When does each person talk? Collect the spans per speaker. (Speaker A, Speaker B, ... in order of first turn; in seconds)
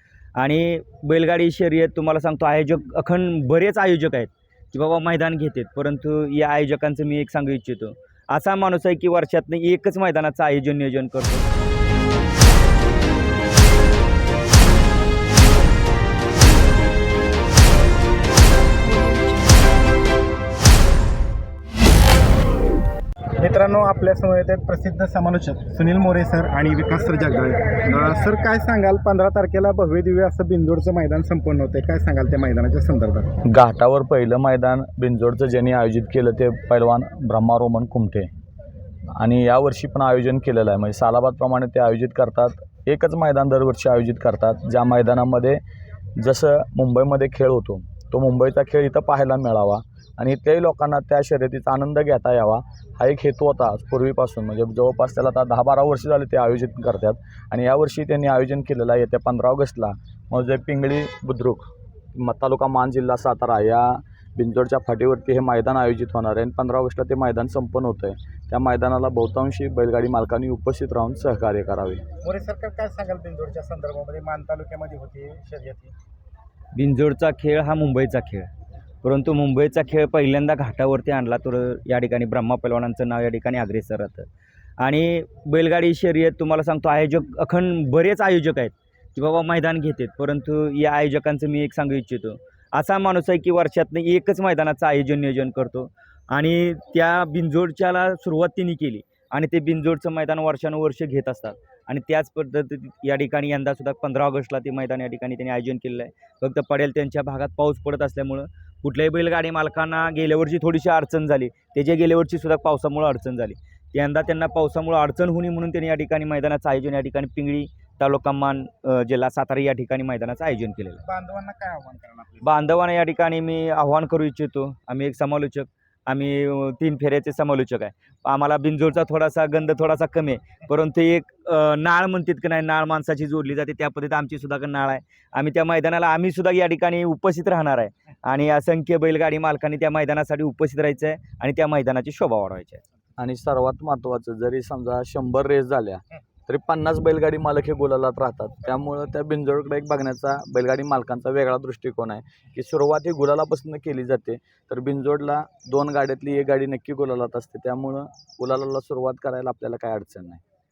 Speaker A: 0.4-11.5, 76.7-78.5, 79.0-84.3, 84.8-121.0, 122.4-142.8
Speaker B: 23.4-33.4, 72.2-75.9, 121.0-122.5
Speaker C: 33.4-38.3, 39.2-45.6, 46.2-72.0, 143.2-160.4